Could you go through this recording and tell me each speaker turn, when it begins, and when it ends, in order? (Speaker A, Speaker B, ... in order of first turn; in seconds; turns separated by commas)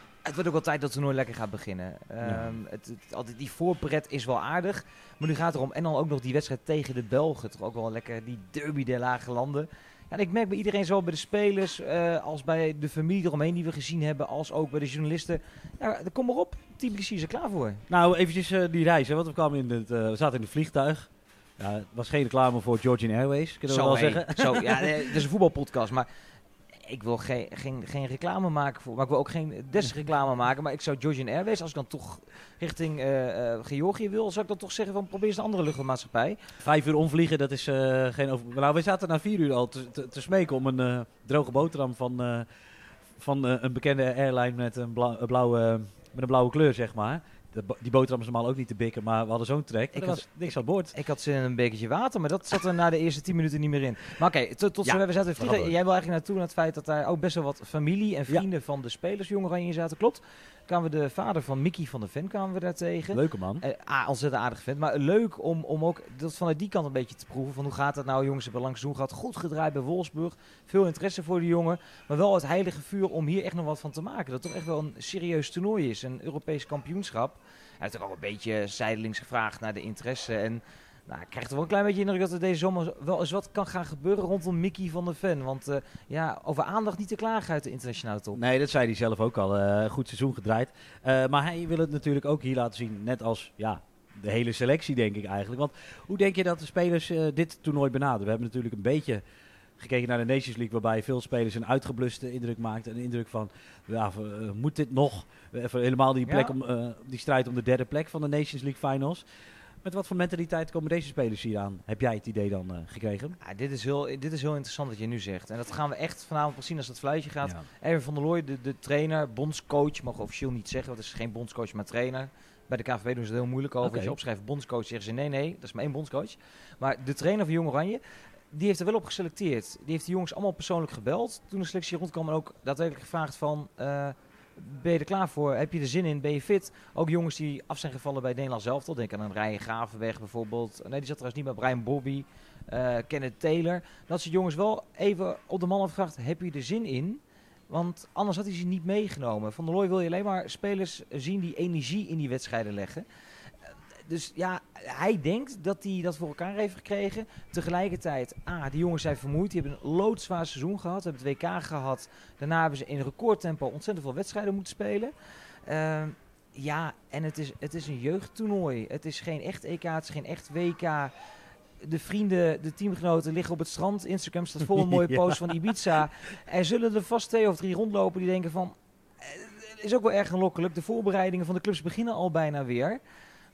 Speaker A: 0.2-17.9, Speaker B: 2.2-2.5, Speaker B: 17.9-25.2, Speaker A: 23.7-26.1, Speaker A: 26.8-36.4, Speaker B: 36.6-42.5, Speaker B: 43.2-50.9, Speaker A: 49.9-50.2, Speaker A: 50.9-88.4, Speaker B: 54.8-55.7, Speaker B: 63.1-63.6, Speaker B: 88.3-99.2, Speaker B: 99.8-109.2, Speaker A: 106.3-106.5, Speaker B: 109.8-113.4, Speaker A: 113.4-153.1, Speaker B: 123.8-124.2, Speaker A: 154.1-165.1, Speaker A: 165.7-171.1, Speaker A: 171.8-183.0, Speaker B: 174.8-175.7